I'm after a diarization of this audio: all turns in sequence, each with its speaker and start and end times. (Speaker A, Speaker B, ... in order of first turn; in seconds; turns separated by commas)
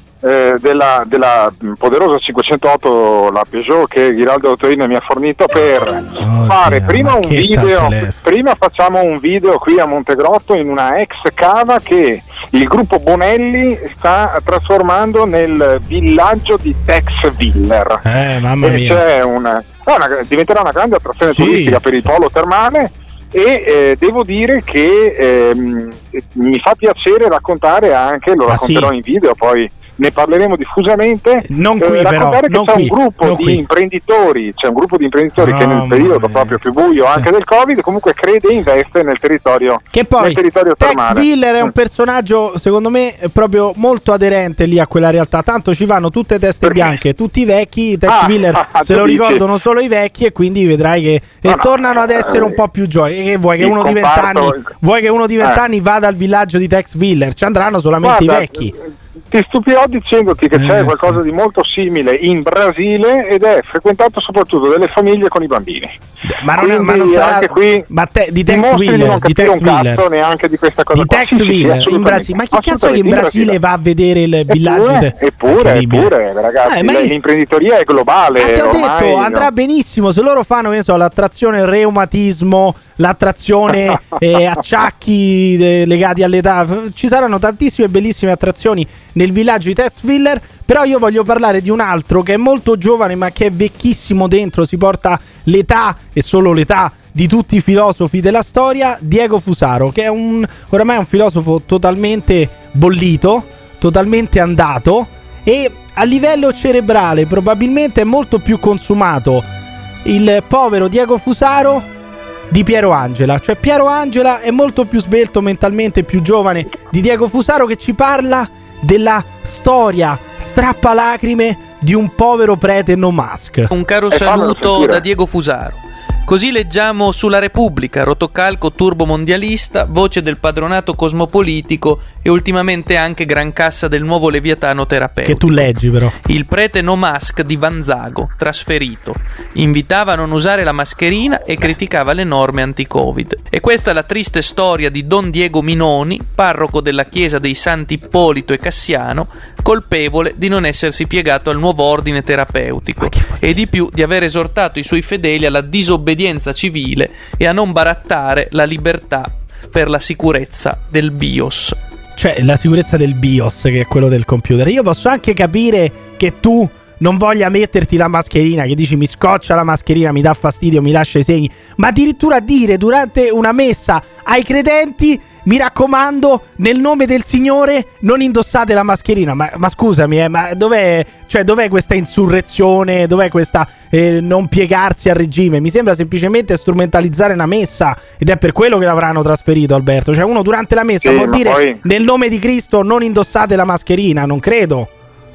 Speaker A: 0.2-18.0, Speaker B: 6.2-8.2, Speaker B: 18.1-19.0, Speaker A: 18.6-41.3, Speaker B: 21.2-22.1, Speaker B: 28.5-28.9, Speaker B: 31.4-33.6, Speaker B: 35.4-36.6, Speaker B: 39.9-58.7, Speaker A: 48.1-49.4, Speaker A: 51.5-52.6, Speaker A: 53.6-54.7, Speaker A: 58.0-58.8, Speaker A: 59.3-66.0, Speaker B: 60.5-61.2, Speaker B: 66.4-70.0, Speaker A: 66.6-67.8, Speaker A: 68.5-73.5, Speaker B: 71.0-77.1, Speaker A: 74.5-79.5, Speaker B: 78.4-109.5, Speaker B: 110.0-111.9, Speaker B: 112.5-123.7, Speaker C: 123.7-135.7, Speaker A: 124.1-125.0, Speaker B: 135.3-136.2, Speaker C: 136.3-161.8, Speaker B: 153.0-153.6, Speaker B: 162.2-194.9, Speaker A: 191.0-191.8